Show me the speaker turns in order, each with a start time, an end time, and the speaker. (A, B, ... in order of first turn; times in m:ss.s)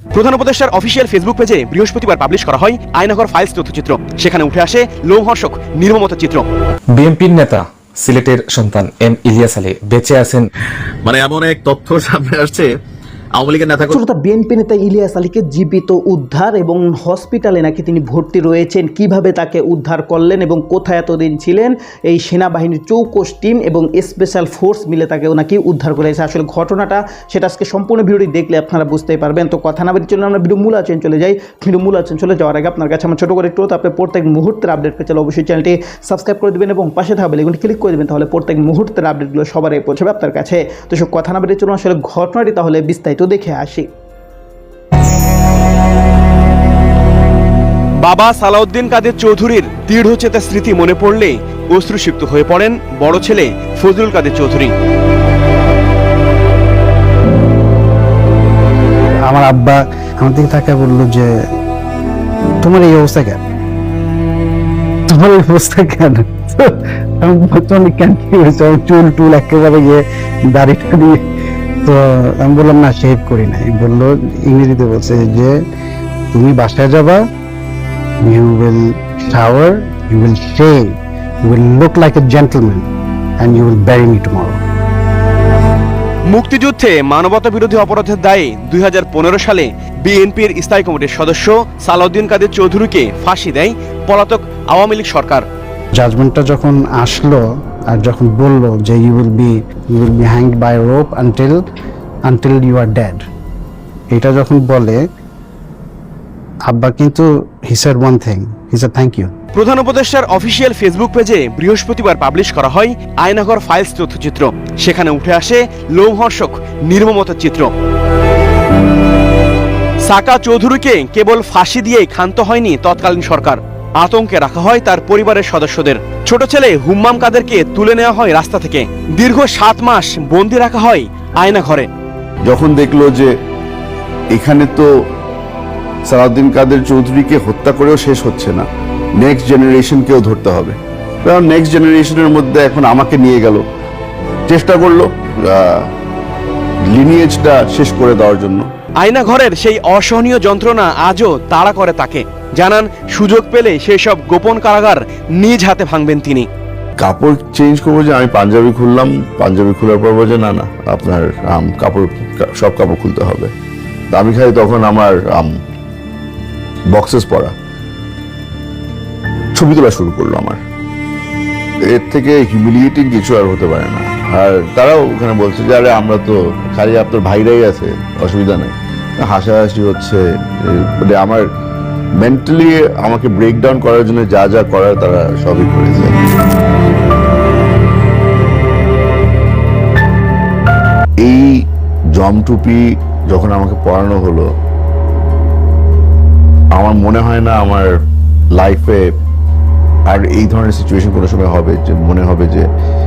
0:00.1-0:06.4 A
0:07.0-0:10.4 B
0:11.0-0:12.7 C
0:13.4-0:14.0 C
0:13.9-0:43.9 D
0:48.0-0:54.7 A
0:59.2-1:01.4 E
1:02.6-1:03.4 E
1:05.1-1:11.2 E
1:11.8-1:15.6 E
1:16.3-1:17.2 E
1:18.2-1:22.9 E
1:23.4-1:24.6 E
1:26.3-1:35.5 A
1:36.0-1:41.6 E
1:42.3-1:43.2 E
1:44.1-1:45.0 E
1:46.6-1:49.3 E
1:49.5-1:57.7 A
2:00.0-2:11.9 A
2:12.4-2:13.3 F
2:14.3-2:14.9 F
2:16.1-2:18.7 F
2:19.2-2:23.7 F
2:24.5-2:25.9 F
2:26.9-2:28.7 F
2:29.0-2:36.5 A
2:37.0-2:43.5 F
2:44.1-2:45.5 F
2:46.9-2:47.5 F
2:49.5-2:50.6 F
2:51.9-3:01.4 F
3:02.2-3:06.2 F
3:11.2-3:11.6 F
3:12.1-3:14.5 F
3:16.8-3:18.0 F
3:18.6-3:19.0 F
3:20.1-3:22.7 F